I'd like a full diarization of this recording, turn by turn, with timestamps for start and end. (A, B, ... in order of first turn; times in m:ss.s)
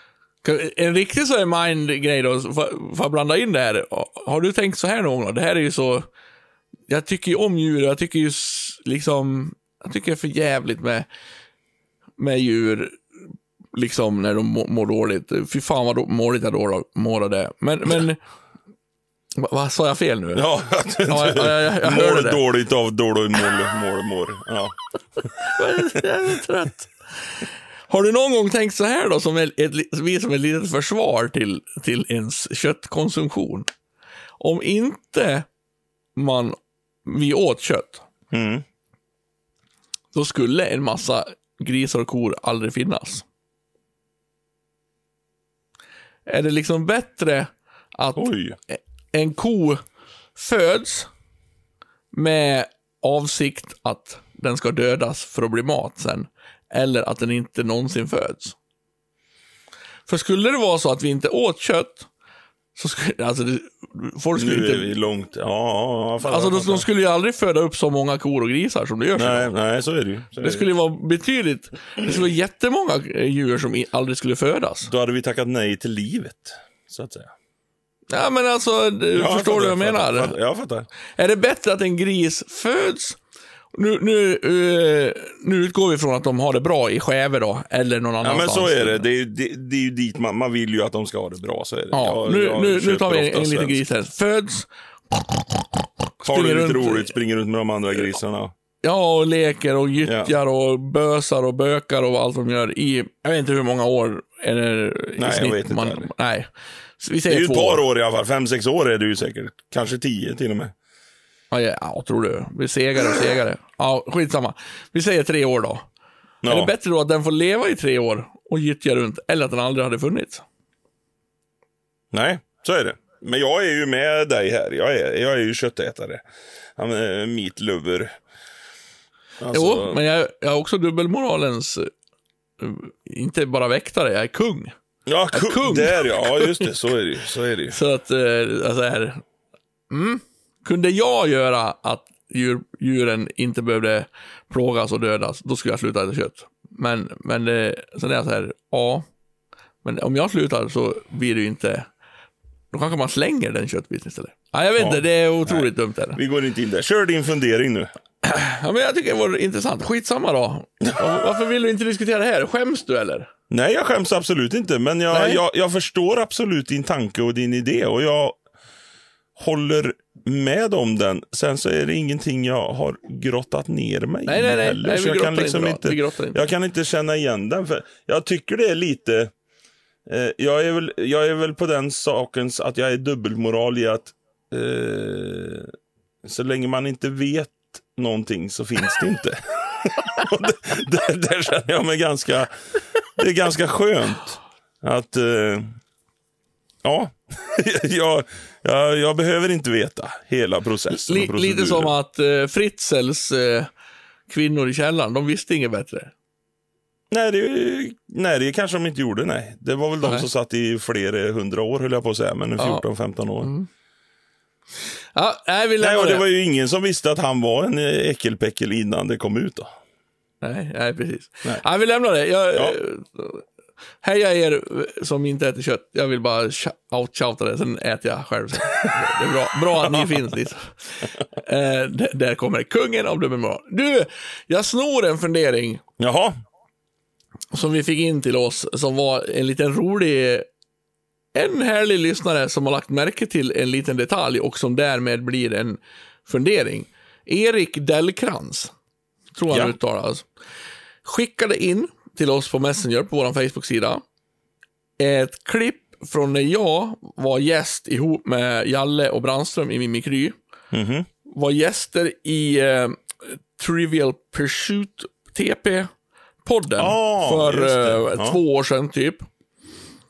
0:00.4-0:06.1 A
0:06.9-0:11.1 A
0:12.2-0:13.0 A
0:13.7-0:18.2 A
0:19.4-0:20.4 A
0:20.3-0:24.8 B
0:21.0-0:22.4 A
0:25.4-0:33.7 A
0:34.4-0:35.5 A
0:36.2-0:38.0 A
0:38.3-0:38.6 B
0:40.1-0:43.2 A
0:46.3-0:49.8 A
0:48.2-0:48.6 B
0:50.4-0:51.1 A
0:52.1-0:58.6 A
1:00.1-1:02.1 A
1:02.8-1:04.9 A
1:04.4-1:06.9 B
1:06.2-1:09.5 A
1:09.2-1:10.7 B
1:10.4-1:14.9 A
1:14.8-1:17.3 B
1:18.1-1:20.3 A
1:19.1-1:20.9 B
1:21.2-1:23.2 A
1:23.7-1:29.0 A
1:28.2-1:33.8 B
1:31.9-1:37.1 A
1:36.2-1:38.5 B
1:38.8-1:47.8 A
1:40.0-1:40.3 B
1:45.2-1:46.1 B
1:47.3-1:50.7 B
1:51.5-1:55.9 A
1:56.4-1:56.7 B
1:56.5-2:00.4 A
2:02.1-2:06.2 B
2:06.8-2:08.1 B
2:09.4-2:10.0 B
2:09.5-2:11.9 A
2:12.6-2:14.8 A
2:15.1-2:17.8 B
2:15.3-2:16.7 A
2:17.7-2:19.2 A
2:19.9-2:29.1 A
2:29.8-2:31.9 A
2:32.7-2:36.2 A
2:34.8-2:37.9 B
2:38.2-2:43.3 A
2:43.5-2:48.4 B
2:45.1-2:45.4 A
2:49.4-2:59.3 B
2:54.3-2:56.4 A
3:00.1-3:05.7 B
3:06.2-3:12.5 B
3:13.2-3:15.8 B
3:16.8-3:21.9 B
3:21.1-3:23.7 A
3:24.3-3:26.1 A
3:27.1-3:33.5 B
3:32.6-3:32.8 A
3:33.4-3:33.7 A
3:35.1-3:36.2 A
3:35.8-3:39.7 B
3:40.4-3:43.4 A
3:44.0-3:55.8 A
3:49.7-3:50.2 B
3:56.0-3:56.4 B
3:57.5-4:00.5 A
4:01.3-4:08.7 A
4:09.4-4:10.3 A
4:09.5-4:09.8 B
4:11.0-4:14.0 A
4:15.0-4:20.4 A
4:20.7-4:21.1 B
4:21.3-4:25.9 A
4:26.4-4:29.3 A
4:26.8-4:28.4 B